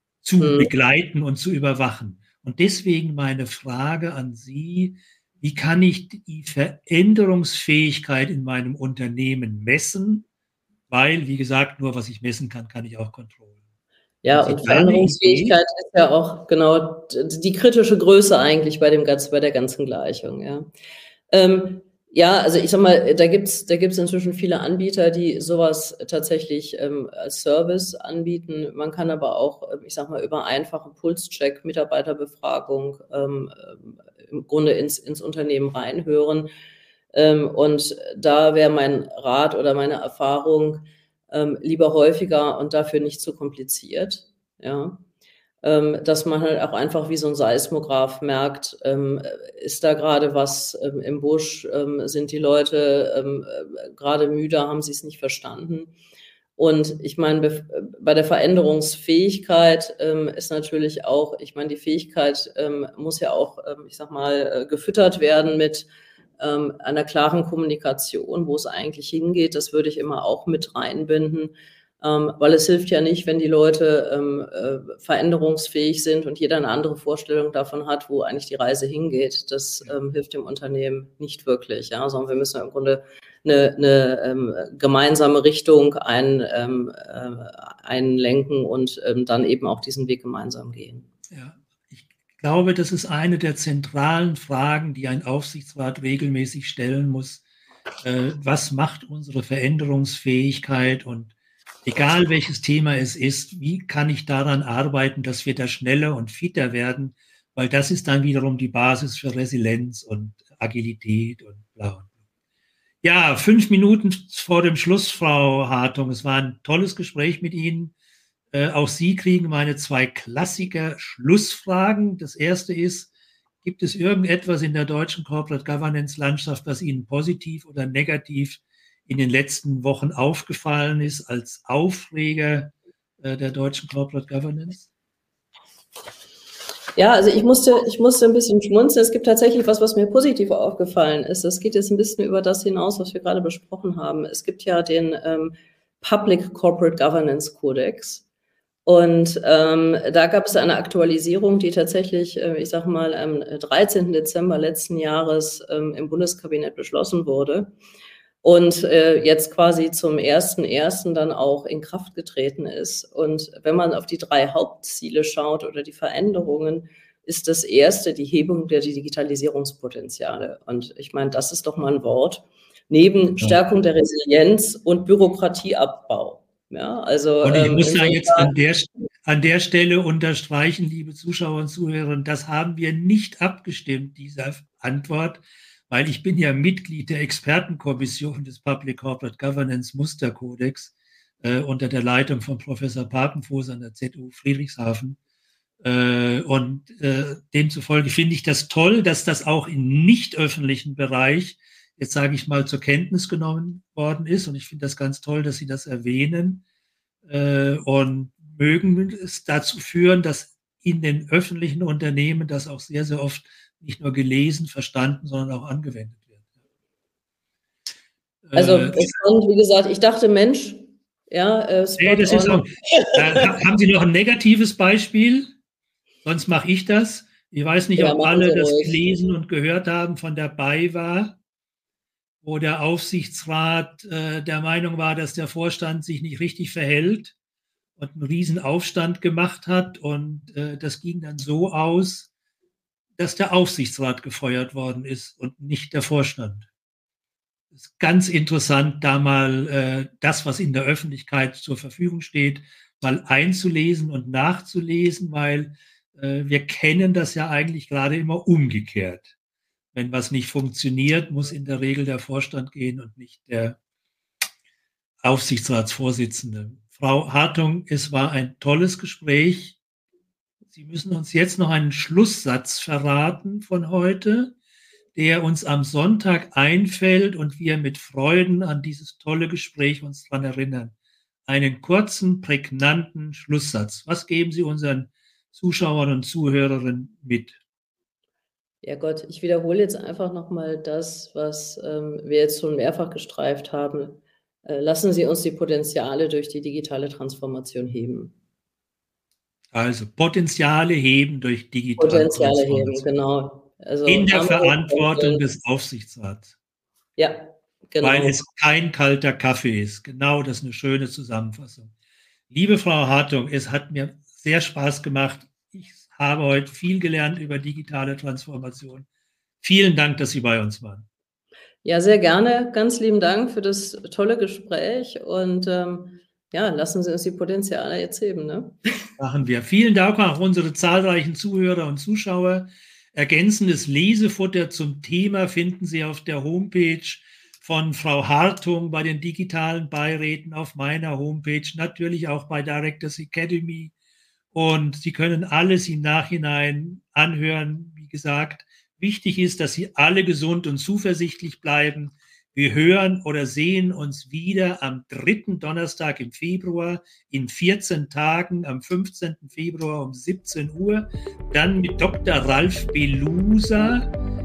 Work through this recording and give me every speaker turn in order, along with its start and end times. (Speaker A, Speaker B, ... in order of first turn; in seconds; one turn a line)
Speaker A: 0.2-10.2
Speaker B: 0.4-0.7
Speaker A: 10.9-13.6
Speaker B: 14.2-20.7
Speaker A: 14.3-15.5
Speaker B: 21.3-36.5
Speaker B: 37.1-45.0
Speaker B: 45.6-55.9
Speaker B: 56.6-65.9
Speaker B: 66.4-91.0
Speaker A: 91.3-97.4
Speaker A: 98.0-101.3
Speaker A: 101.8-112.1
Speaker A: 113.0-117.9
Speaker A: 118.5-123.1
Speaker A: 123.6-134.9
Speaker B: 137.0-148.2
Speaker B: 148.8-157.7
Speaker B: 158.4-178.5
Speaker A: 177.4-195.2
Speaker A: 195.8-206.6
Speaker A: 207.2-216.4
Speaker A: 218.4-219.1
Speaker B: 218.5-223.5
Speaker A: 222.0-225.5
Speaker A: 226.2-231.4
Speaker B: 228.0-229.0
Speaker A: 232.4-237.3
Speaker A: 238.0-242.3
Speaker A: 243.2-246.7
Speaker A: 247.7-259.3
Speaker A: 259.9-263.8
Speaker A: 265.2-269.8
Speaker A: 270.7-274.5
Speaker A: 275.1-280.9
Speaker A: 281.5-287.6
Speaker B: 288.8-298.3
Speaker A: 299.7-303.0
Speaker B: 302.0-305.4
Speaker A: 304.1-306.5
Speaker B: 307.2-308.4
Speaker A: 308.0-311.9
Speaker A: 312.5-319.1
Speaker A: 319.6-321.1
Speaker B: 321.8-328.8
Speaker A: 329.2-343.9
Speaker A: 344.5-364.1